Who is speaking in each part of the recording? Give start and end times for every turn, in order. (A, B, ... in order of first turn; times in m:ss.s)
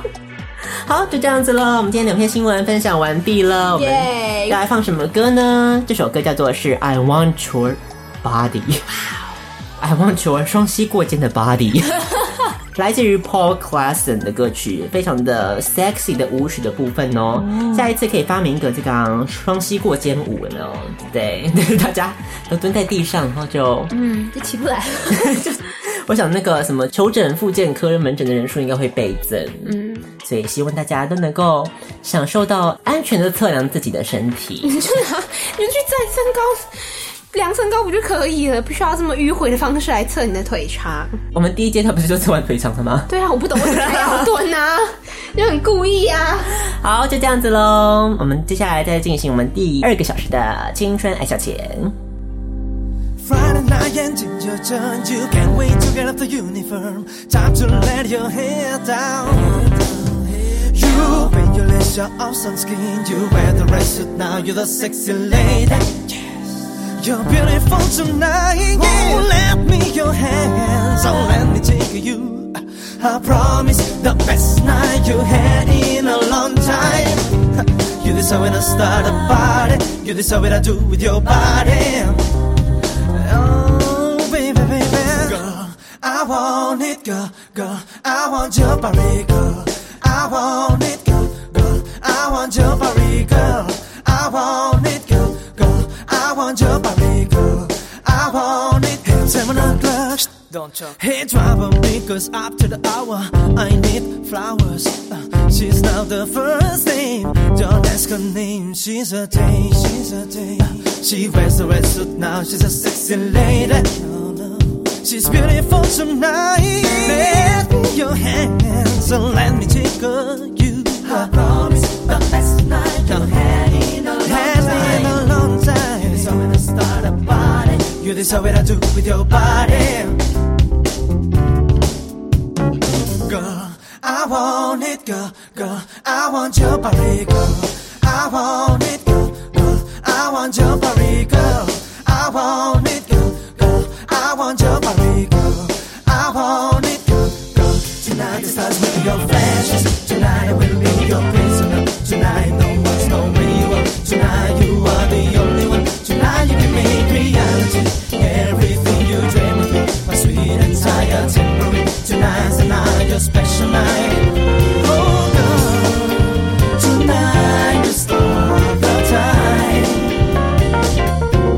0:00.7-0:08.9 A
0:03.8-0:04.6 B
0:09.8-0:12.1 A
0:12.8-0:23.9 A
0:17.5-0:17.8 B
0:23.9-0:25.4 B
0:25.1-0:34.8 A
0:29.6-0:30.1 B
0:34.6-0:41.2 B
0:41.3-0:44.3 A
0:43.1-0:46.6 B
0:46.6-0:52.0 A
0:53.2-1:06.0 C
1:07.0-1:22.2 C
1:23.1-2:10.2 C
2:13.2-2:50.2 C